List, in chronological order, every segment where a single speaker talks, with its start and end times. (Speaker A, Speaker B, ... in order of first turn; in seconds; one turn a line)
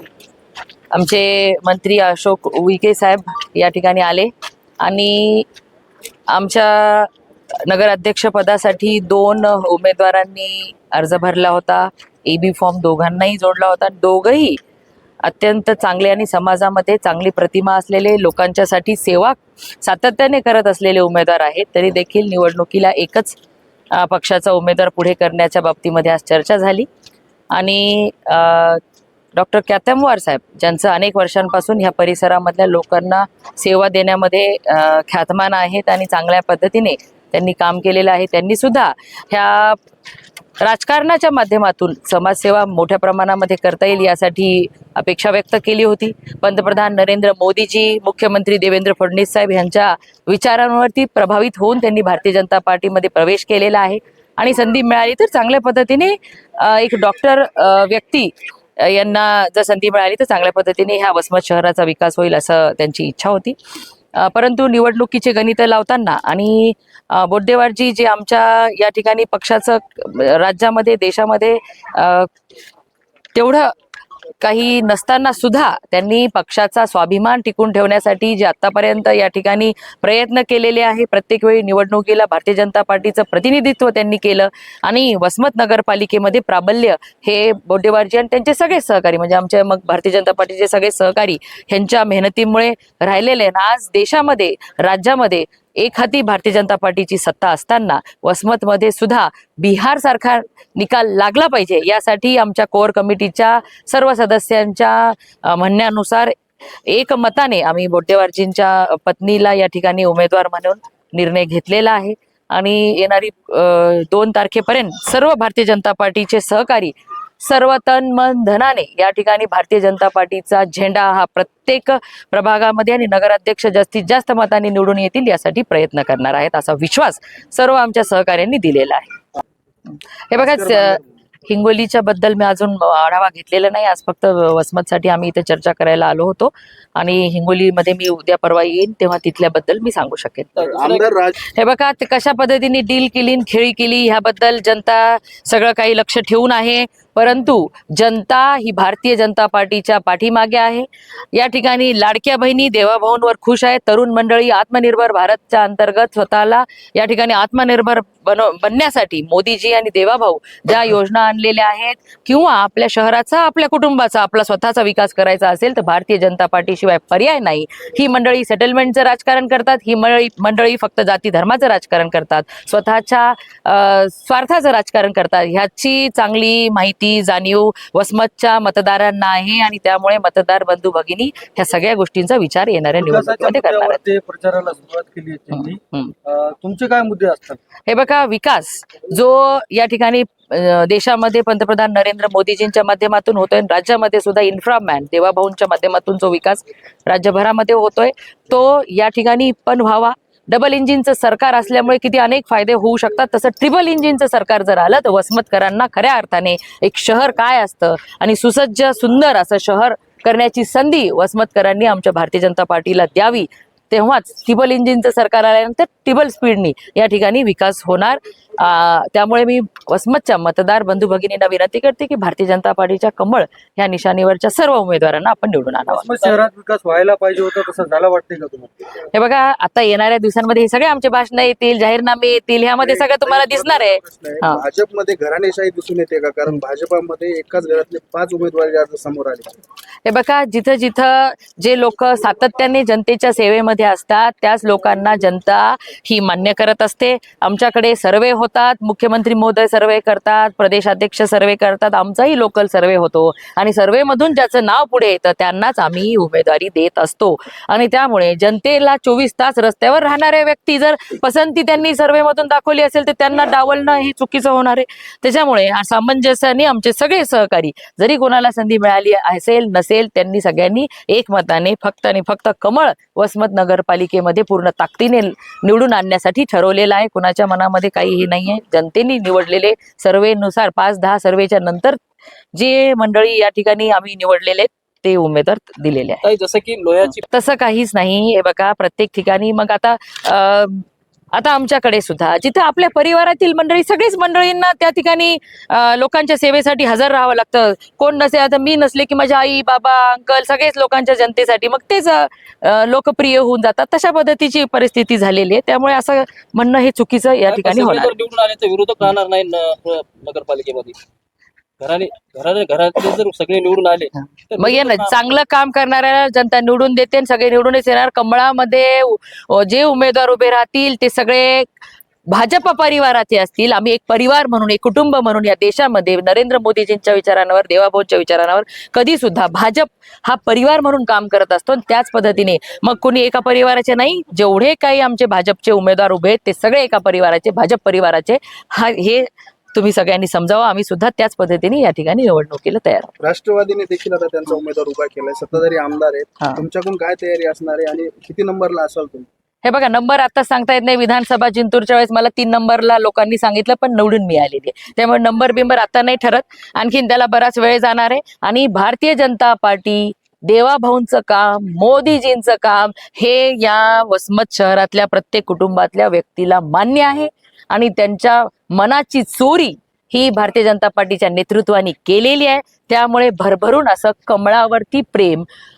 Speaker A: 0.9-5.5
Speaker A: 6.3-7.1
Speaker A: 7.6-14.6
Speaker A: 15.2-23.4
Speaker A: 23.9-26.9
Speaker A: 27.5-28.8
Speaker A: 29.4-39.8
Speaker A: 40.6-63.5
Speaker A: 64.1-72.3
Speaker A: 73.3-73.7
Speaker A: 74.4-106.3
Speaker A: 106.9-129.2
Speaker A: 129.9-140.5
Speaker B: 140.6-141.0
Speaker C: 140.6-141.4
Speaker A: 141.4-184.0
Speaker D: 183.0-187.6
Speaker A: 185.5-186.1
Speaker A: 187.9-226.1
Speaker D: 225.9-228.7
Speaker A: 229.0-234.6
Speaker C: 232.8-239.6
Speaker A: 240.0-282.0
Speaker A: 282.5-286.3
Speaker B: 286.2-287.2
Speaker A: 287.3-308.1
Speaker B: 307.5-311.0
Speaker B: 311.8-315.3
Speaker A: 314.6-321.7
Speaker A: 322.3-343.1
Speaker C: 343.2-349.3
Speaker A: 349.6-375.5